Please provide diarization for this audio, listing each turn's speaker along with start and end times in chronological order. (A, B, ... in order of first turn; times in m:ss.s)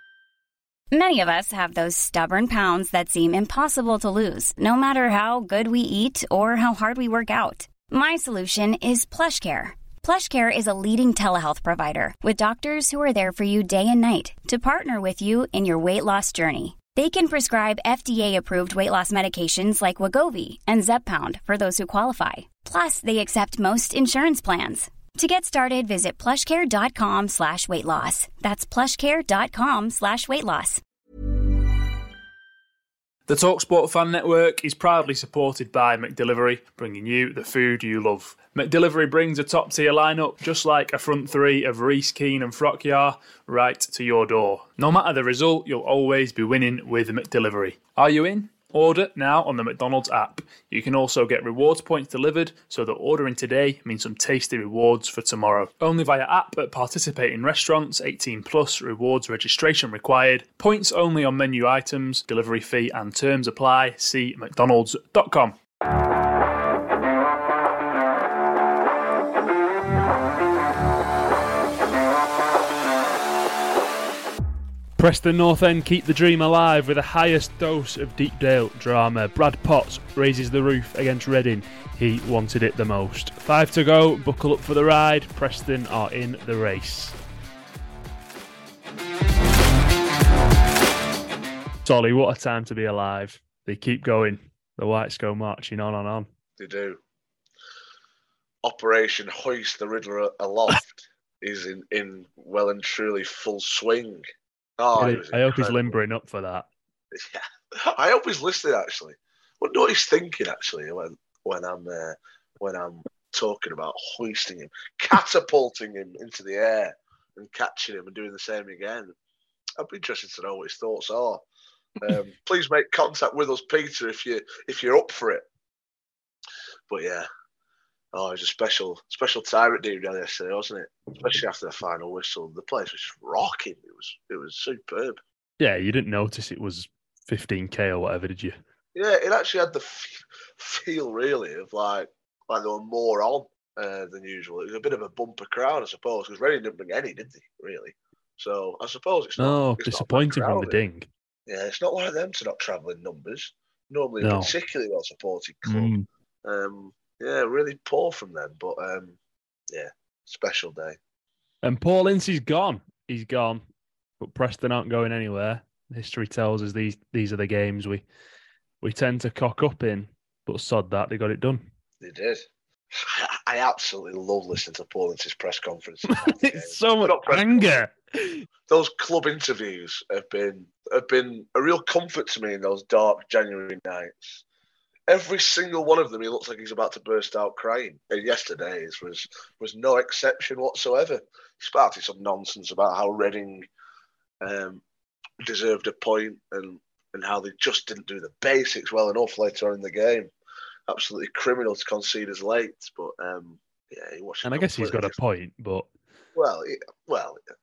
0:00.9-0:30.8 A
0:33.3-1:05.6 B
1:15.0-1:27.2 B
1:31.8-1:36.3 B
1:36.6-1:37.0 C
1:38.6-1:44.2 C
1:44.8-1:46.0 C
1:45.0-1:46.7 B
1:47.1-1:59.2 C
1:59.8-2:01.4 C
2:02.0-2:05.5 C
2:06.9-2:07.3 C
2:08.1-2:15.2 C
2:15.6-2:18.6 B
2:19.0-2:30.8 C
2:29.4-2:31.1 B
2:31.5-2:35.9 C
2:34.2-2:34.5 B
2:35.6-2:36.1 B
2:36.4-2:39.2 C
2:39.7-2:41.0 C
2:41.6-2:43.6 B
2:44.2-2:48.0 B
2:48.8-2:51.6 B
2:52.0-2:57.8 C
2:56.1-2:58.4 B
2:58.7-3:04.4 C
3:05.1-3:13.7 C
3:14.4-3:14.8 C
3:15.4-3:20.3 C
3:20.9-3:25.2 C
3:24.4-3:25.9 B
3:26.4-3:27.4 C